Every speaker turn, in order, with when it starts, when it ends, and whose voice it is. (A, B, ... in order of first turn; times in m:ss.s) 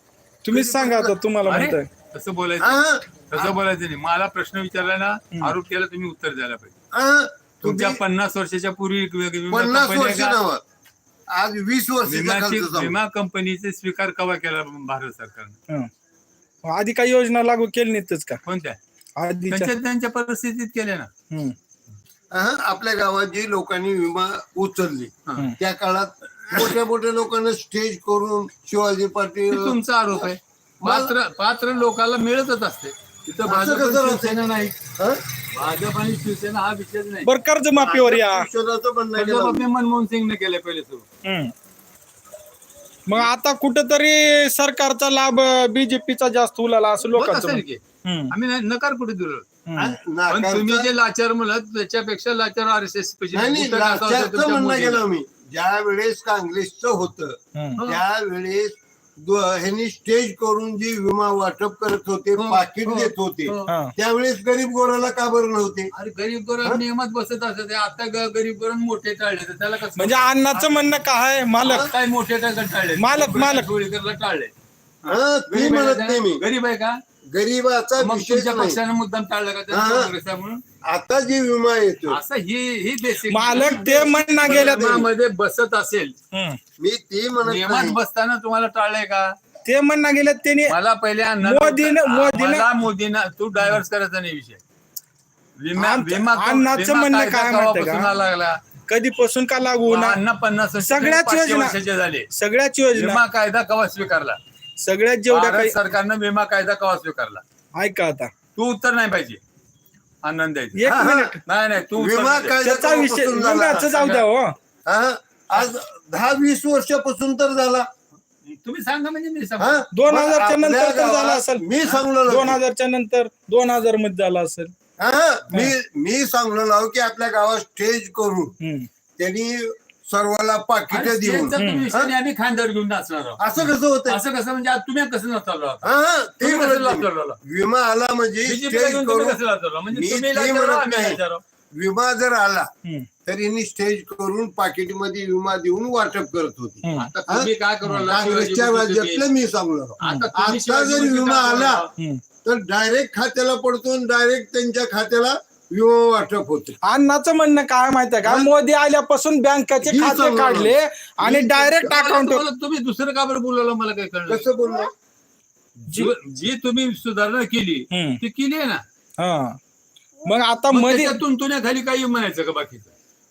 0:00.4-0:01.9 A
0:00.5-0:06.8 B
0:00.6-0:00.9 C
0:02.6-0:03.5 C
0:06.9-0:08.0 C
0:07.6-0:10.4 B
0:09.5-0:10.6 C
0:11.3-0:12.9 C
0:12.0-0:15.6 B
0:16.6-0:18.4 A
0:18.4-0:18.8 B
0:19.2-0:19.7 A
0:19.5-0:21.1 B
0:21.3-0:21.5 A
0:22.3-0:29.8 C
0:25.2-0:25.5 B
0:29.5-0:34.8 B
0:30.8-0:31.1 C
0:33.4-0:34.4 C
0:35.0-0:35.2 C
0:35.5-0:37.3 B
0:37.2-0:38.5 A
0:37.8-0:39.6 C
0:39.2-0:41.0 B
0:41.2-0:41.5 A
0:43.1-0:48.3 A
0:47.1-0:49.5 B
0:49.6-0:50.0 A
0:49.8-0:50.8 C
0:50.3-0:55.0 B
0:53.3-1:05.9 C
0:57.5-0:57.8 A
0:57.8-0:58.0 B
1:02.4-1:03.7 B
1:03.7-1:03.9 A
1:05.9-1:10.7 B
1:10.0-1:11.9 A
1:11.6-1:14.5 B
1:13.0-1:13.7 A
1:15.0-1:17.0 B
1:15.1-1:16.4 C
1:17.3-1:18.8 C
1:18.0-1:20.6 B
1:19.7-1:20.1 C
1:20.8-1:22.2 C
1:22.1-1:26.1 B
1:23.3-1:25.0 A
1:24.5-1:25.1 C
1:26.3-1:26.6 A
1:26.8-1:28.0 C
1:27.4-1:29.3 B
1:29.6-1:30.7 A
1:30.7-1:34.6 B
1:31.4-1:32.7 A
1:35.6-1:38.6 B
1:35.8-1:38.1 A
1:38.9-1:40.2 A
1:39.9-1:42.3 B
1:40.8-1:41.8 A
1:42.3-1:43.2 A
1:42.9-1:44.4 B
1:44.8-1:45.8 A
1:45.3-1:47.4 B
1:47.8-1:48.3 A
1:48.6-1:49.4 B
1:50.2-1:50.9 B
1:50.7-1:51.4 A
1:50.9-1:51.3 C
1:51.4-1:52.6 B
1:52.0-1:53.9 C
1:52.6-1:54.6 A
1:53.8-1:54.2 B
1:54.8-1:57.9 C
1:58.4-1:59.8 B
1:59.6-2:02.6 C
1:59.9-2:01.6 A
2:02.3-2:04.7 A
2:05.0-2:08.5 C
2:08.6-2:08.9 A
2:09.2-2:12.1 C
2:10.9-2:13.4 B
2:11.6-2:11.8 A
2:13.4-2:14.2 C
2:14.1-2:15.9 B
2:15.8-2:19.4 C
2:16.4-2:17.4 B
2:18.4-2:21.4 B
2:19.9-2:21.2 C
2:21.7-2:22.7 C
2:23.2-2:27.5 C
2:26.8-2:27.1 A
2:26.9-2:29.2 B
2:28.0-2:31.8 C
2:30.0-2:31.9 B
2:32.0-2:32.2 A
2:32.4-2:36.8 C
2:36.8-2:42.4 A
2:39.8-2:42.0 C
2:41.9-2:44.5 B
2:44.3-2:44.9 C
2:45.8-2:48.8 B
2:47.9-2:48.2 A
2:49.2-2:49.6 A
2:50.2-2:51.2 A
2:50.7-2:52.9 B